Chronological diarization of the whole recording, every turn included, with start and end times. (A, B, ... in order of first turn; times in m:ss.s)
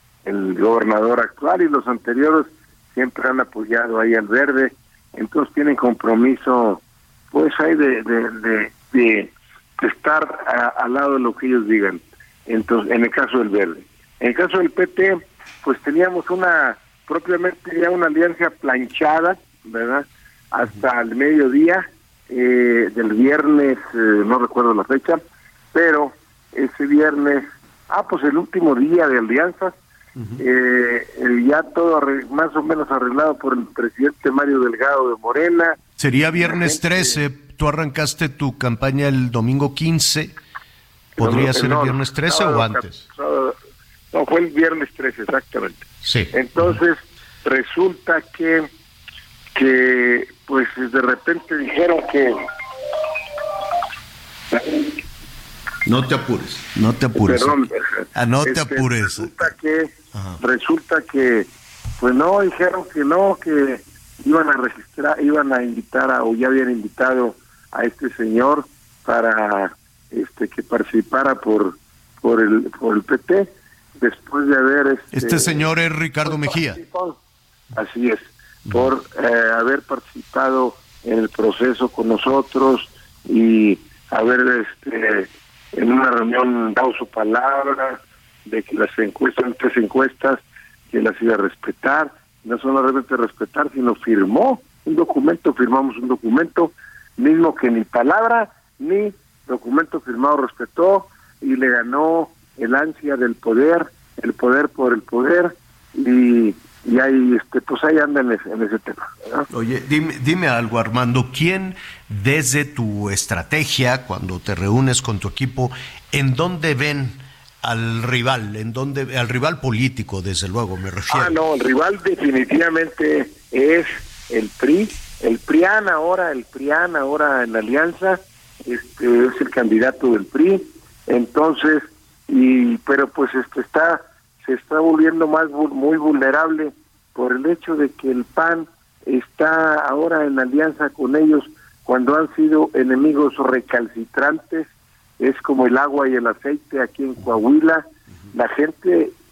0:00.3-0:25.2 A
0:25.7-0:29.8 A
0:30.2-0:30.4 B
0:30.4-0:35.8 A
0:36.0-0:40.3 B
0:36.4-0:37.1 A
0:41.2-0:43.0 B
0:41.2-0:43.6 A
0:44.1-0:48.7 A
0:46.0-0:46.8 B
0:49.6-0:52.4 A
0:54.5-0:54.9 A
0:55.8-0:59.5 B
0:57.2-1:01.5 A
1:00.1-1:00.4 B
1:02.0-1:15.6 A
1:15.1-1:16.8 B
1:16.2-1:17.2 A
1:17.7-1:49.5 A
1:18.7-1:18.9 B
1:49.5-2:01.4 B
2:01.1-2:24.7 A
2:25.2-2:29.1 A